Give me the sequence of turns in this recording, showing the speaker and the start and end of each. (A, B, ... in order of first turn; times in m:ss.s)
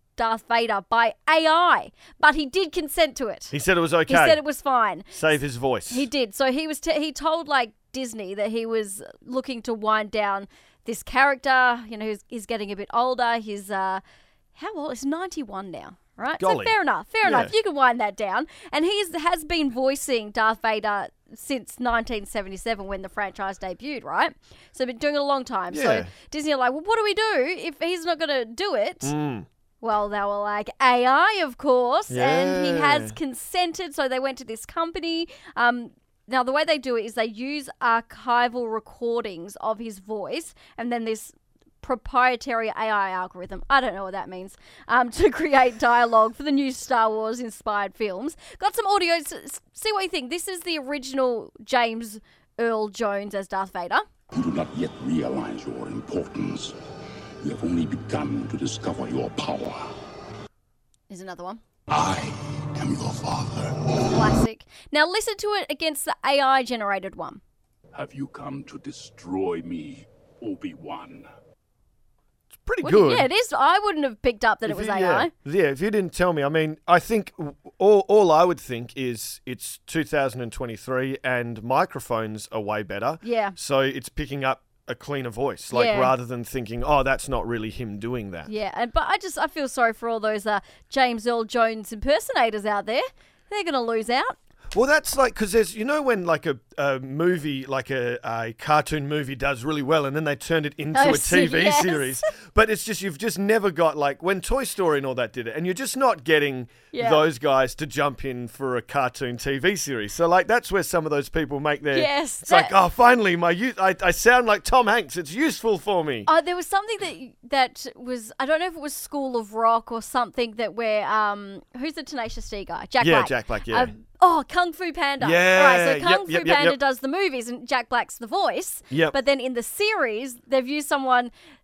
0:00.2-0:03.5 A
0:03.5-0:04.4 B
0:04.1-0:05.4 A
0:05.1-0:06.1 B
0:05.9-0:14.0 A
0:14.5-0:29.1 A
0:16.4-0:17.5 B
0:25.7-0:26.1 B
0:29.0-0:29.5 B
0:29.8-0:54.0 A
0:32.1-0:33.2 B
0:54.3-0:56.8 C
0:57.4-0:59.9 C
1:01.1-1:01.6 A
1:01.9-1:04.0 C
1:04.0-1:07.4 A
1:07.9-1:11.3 C
1:12.5-1:13.3 B
1:12.8-1:15.3 A
1:14.6-1:28.5 B
1:23.2-1:23.6 A
1:25.7-1:26.1 A
1:28.5-1:34.4 A
1:34.7-1:56.3 B
1:40.9-1:42.3 A
1:46.9-1:47.2 A
1:51.9-1:52.7 A
1:56.3-2:11.3 A
2:03.0-2:03.9 B
2:05.2-2:06.8 B
2:08.9-2:09.2 B